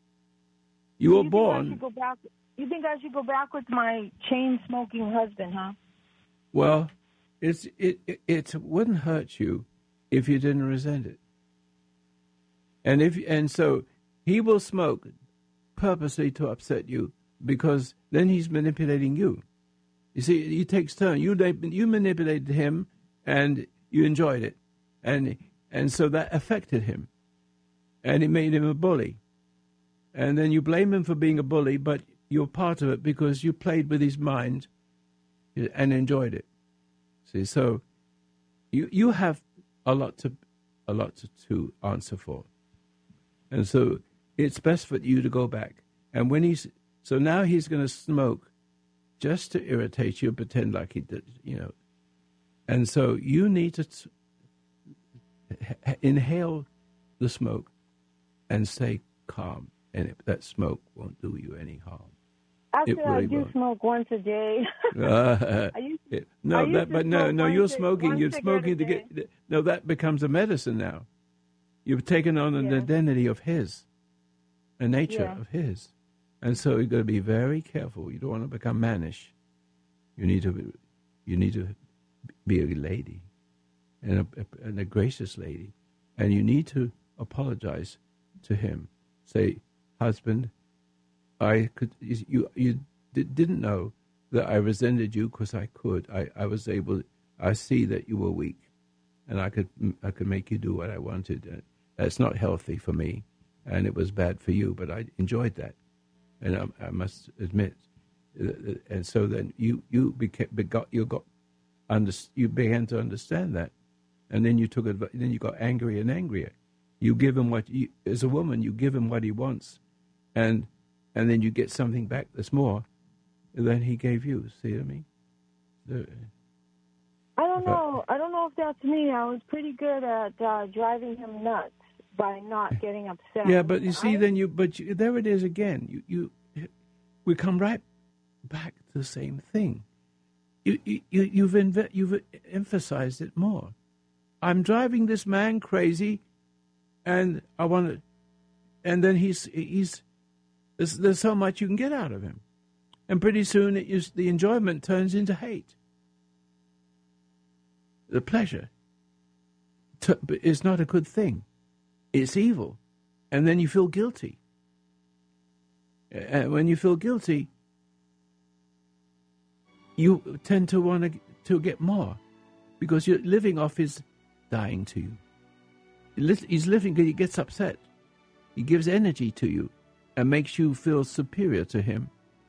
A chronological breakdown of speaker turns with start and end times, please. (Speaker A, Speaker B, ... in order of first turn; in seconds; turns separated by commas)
Speaker A: 1.0-1.8, Speaker B: 1.1-5.8, Speaker A: 6.5-11.2, Speaker A: 12.8-15.1, Speaker A: 15.8-19.4, Speaker A: 20.1-27.1, Speaker A: 28.0-29.2, Speaker A: 30.1-34.7, Speaker A: 35.5-36.5, Speaker A: 37.2-37.8, Speaker A: 38.7-42.5, Speaker A: 43.5-48.5, Speaker A: 49.2-51.7, Speaker A: 52.7-54.1, Speaker A: 55.5-56.7, Speaker A: 57.2-57.7, Speaker A: 58.5-62.1, Speaker B: 62.7-64.9, Speaker A: 62.9-63.5, Speaker A: 64.9-71.1, Speaker B: 65.7-69.1, Speaker A: 71.8-73.9, Speaker B: 72.6-72.9, Speaker A: 74.8-79.3, Speaker B: 75.1-75.4, Speaker A: 80.2-81.8, Speaker A: 82.4-83.3, Speaker A: 84.0-90.5, Speaker A: 91.4-98.7, Speaker A: 99.3-105.8, Speaker A: 106.4-107.8, Speaker A: 108.3-111.2, Speaker A: 111.9-113.7, Speaker A: 114.3-119.8, Speaker A: 120.3-122.8, Speaker A: 123.5-125.0, Speaker A: 125.8-126.3, Speaker B: 127.4-134.2, Speaker A: 133.4-136.7, Speaker A: 137.2-137.8, Speaker A: 138.4-139.8, Speaker A: 140.6-143.7, Speaker A: 144.4-146.2, Speaker A: 147.0-148.0, Speaker A: 148.8-150.0, Speaker A: 150.8-152.4, Speaker A: 153.1-155.7, Speaker A: 158.1-158.7, Speaker A: 160.0-161.4, Speaker A: 162.1-162.8, Speaker A: 163.3-164.4, Speaker A: 166.1-167.5, Speaker A: 170.0-172.2, Speaker A: 172.8-175.2, Speaker A: 176.2-177.8, Speaker A: 178.5-182.1